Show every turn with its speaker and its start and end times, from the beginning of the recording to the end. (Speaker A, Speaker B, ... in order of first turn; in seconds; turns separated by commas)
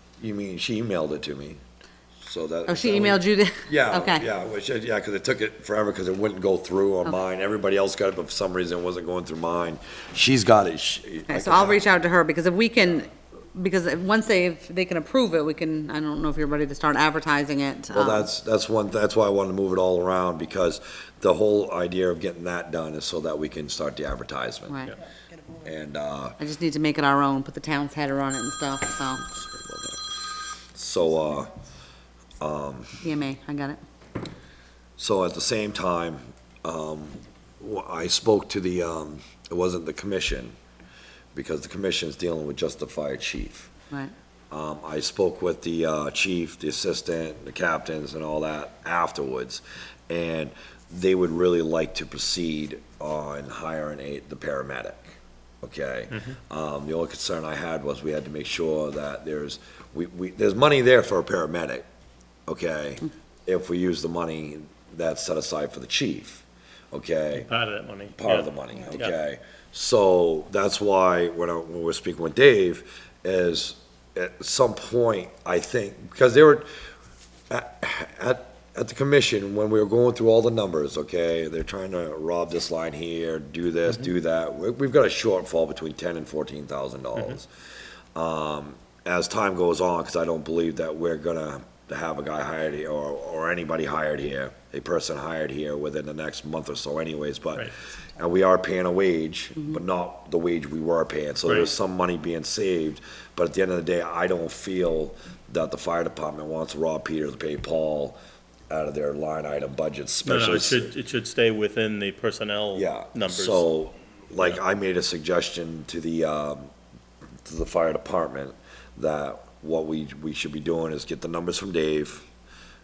Speaker A: 0.2-1.6, Speaker A: 2.2-11.8, Speaker B: 2.7-4.2, Speaker B: 11.3-18.3, Speaker A: 17.9-24.8, Speaker A: 25.6-26.4, Speaker B: 26.4-29.2, Speaker A: 29.2-31.5, Speaker A: 32.4-33.0, Speaker B: 33.0-33.8, Speaker A: 35.0-40.5, Speaker A: 41.3-43.7, Speaker A: 44.5-61.8, Speaker C: 56.1-56.4, Speaker A: 62.5-67.5, Speaker C: 67.5-69.1, Speaker A: 68.2-76.7, Speaker A: 77.5-87.5, Speaker A: 88.1-108.2, Speaker A: 108.7-110.9, Speaker C: 110.2-113.7, Speaker A: 112.7-116.7, Speaker A: 117.4-122.2